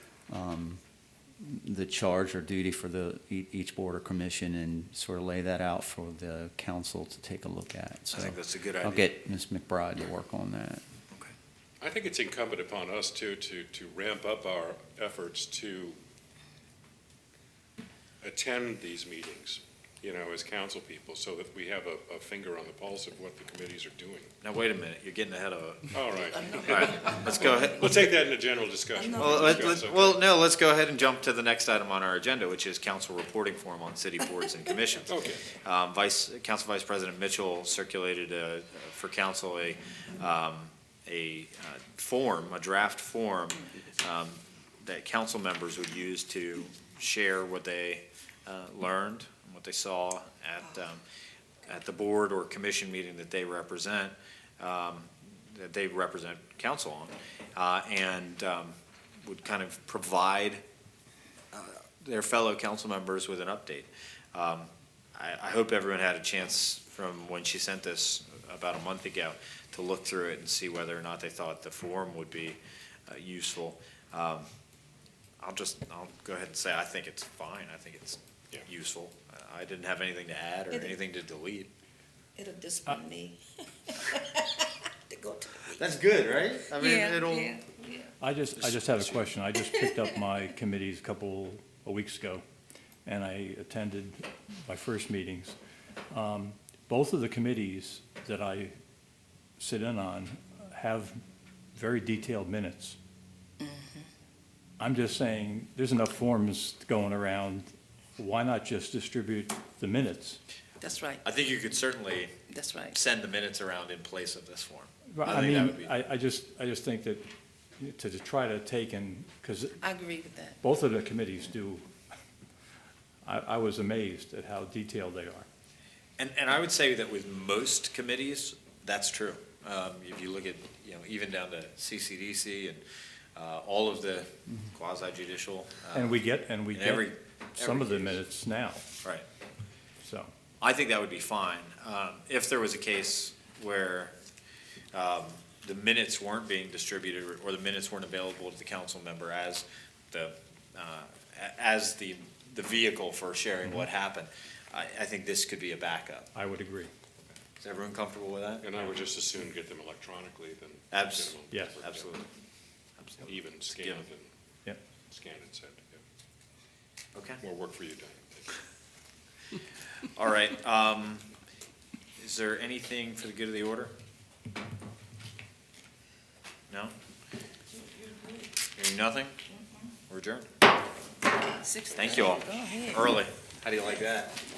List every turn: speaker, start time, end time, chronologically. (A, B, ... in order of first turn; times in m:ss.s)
0:00.3-0:00.8 A
0:01.4-0:10.8 A
0:08.1-0:09.2 B
0:11.8-0:16.0 C
0:18.2-0:24.3 C
0:24.4-0:28.1 B
0:25.9-0:30.2 C
0:26.1-0:27.6 D
0:29.0-0:29.8 D
0:29.2-0:51.0 B
0:35.1-0:35.4 C
0:51.6-1:00.6 B
1:01.5-1:14.5 B
1:15.4-1:21.7 B
1:20.7-1:21.0 D
1:22.4-1:25.8 D
1:25.7-1:27.5 B
1:26.7-1:28.2 D
1:28.2-1:32.4 E
1:28.6-1:29.2 B
1:29.6-1:30.1 D
1:33.1-1:35.6 E
1:36.1-1:38.7 E
1:39.6-1:41.2 E
1:41.8-1:43.0 E
1:43.6-1:44.1 D
1:44.8-1:50.4 E
1:50.8-1:51.2 D
1:51.2-1:52.4 B
1:52.5-1:53.0 D
1:52.9-1:56.0 B
1:55.1-1:57.2 E
1:57.8-1:59.8 E
1:59.8-2:00.6 D
2:00.6-2:01.9 E
2:03.3-2:05.5 E
2:06.2-2:12.8 B
2:13.4-2:16.2 B
2:15.9-2:18.8 E
2:16.7-2:18.2 B
2:20.0-2:20.3 E
2:20.6-2:24.2 B
2:24.9-2:36.3 B
2:36.3-2:36.9 E
2:37.6-2:38.8 B
2:38.6-2:42.1 C
2:40.9-2:42.3 B
2:41.5-2:41.8 E
2:43.0-2:44.0 B
2:43.2-2:44.2 C
2:45.1-2:46.0 C
2:47.2-2:47.4 B
2:47.4-2:48.5 C
2:50.0-2:51.3 B
2:52.2-2:53.9 B
2:58.8-2:59.4 B
3:00.1-3:00.5 B
3:01.6-3:03.2 D
3:01.9-3:04.4 B